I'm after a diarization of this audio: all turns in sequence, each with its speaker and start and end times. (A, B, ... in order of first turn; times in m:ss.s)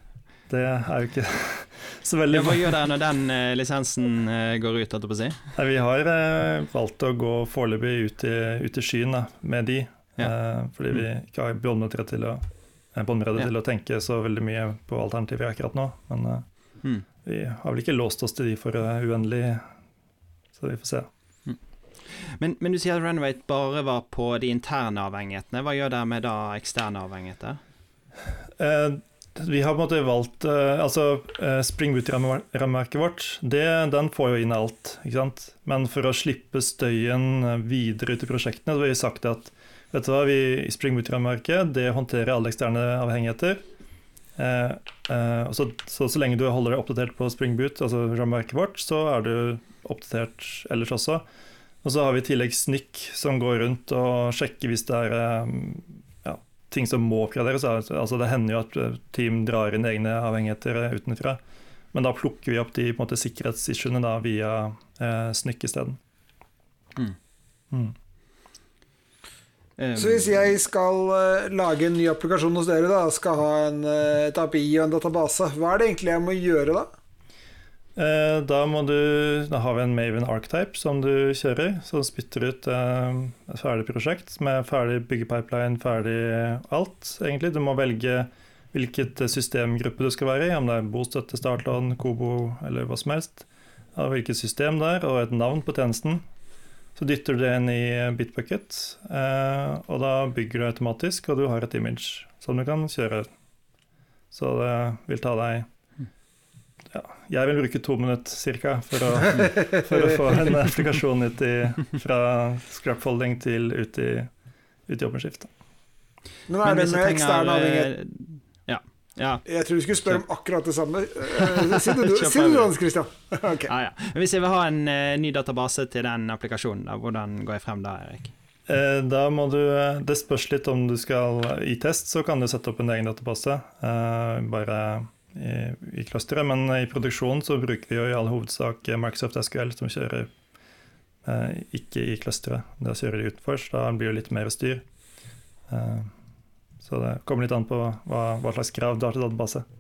0:00.5-0:02.8 A
0:02.3-0:05.4 B
0:05.6-0:16.4 A
0:17.2-0:19.7 A
0:20.6-0:21.1 A
0:22.1-0:27.6 B
0:28.6-0:43.6 A
0:44.4-0:51.2 A
0:51.8-1:01.4 A
1:01.9-1:06.0 A
1:09.8-1:10.4 B
1:10.0-1:16.9 C
1:18.0-1:36.2 A
1:37.0-1:43.3 A
1:44.3-1:45.7 A
1:46.9-1:54.3 A
1:54.9-1:55.5 A
1:56.5-1:57.9 C
1:56.6-1:59.4 B
1:59.5-2:03.7 C
2:01.4-2:02.7 B
2:03.7-2:08.3 B
2:08.7-2:20.3 A
2:21.2-2:24.8 A
2:25.7-2:26.1 A
2:26.8-2:29.6 A